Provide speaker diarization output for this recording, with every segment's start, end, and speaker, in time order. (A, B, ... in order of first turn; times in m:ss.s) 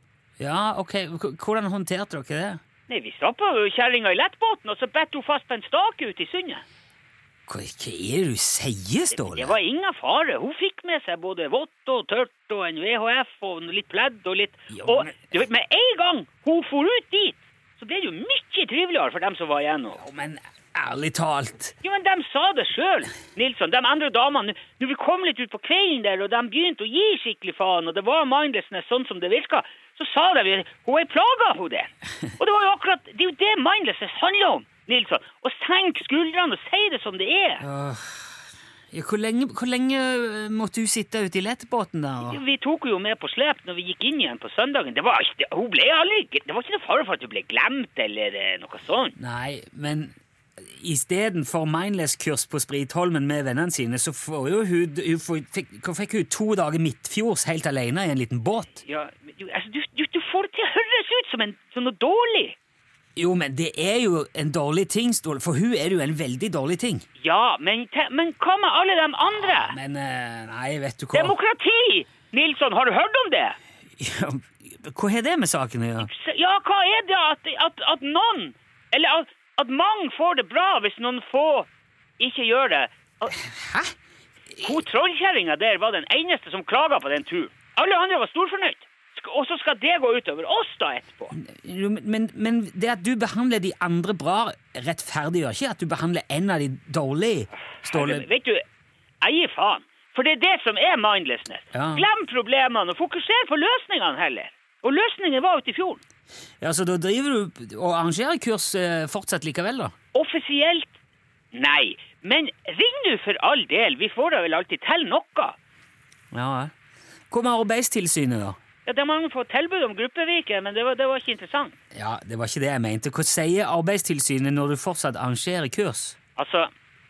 0:00.4-0:02.6 A
0:02.9-0:06.6 B
0:07.5-0:09.5 A
0:09.1-0:20.0 B
0:14.7-0:15.3 A
0:20.0-0:21.7 A
0:21.8-0:37.6 B
0:37.6-0:42.4 A
0:42.2-0:49.1 B
0:49.2-0:58.8 A
0:58.8-1:02.6 B
1:03.2-1:07.0 A
1:07.2-1:09.8 B
1:09.4-1:11.3 A
1:11.1-1:13.6 B
1:14.0-1:16.1 A
1:16.0-1:21.7 B
1:22.2-1:23.4 B
1:23.3-1:23.9 A
1:24.6-1:31.3 B
1:31.3-1:38.3 A
1:37.8-1:38.6 B
1:39.2-1:46.0 B
1:41.7-1:42.0 A
1:46.6-1:49.9 A
1:50.1-1:50.9 B
1:51.5-1:55.6 B
1:56.3-1:56.7 A
1:57.3-1:58.6 A
1:58.8-2:01.8 B
2:01.9-2:06.2 A
2:06.4-2:06.7 B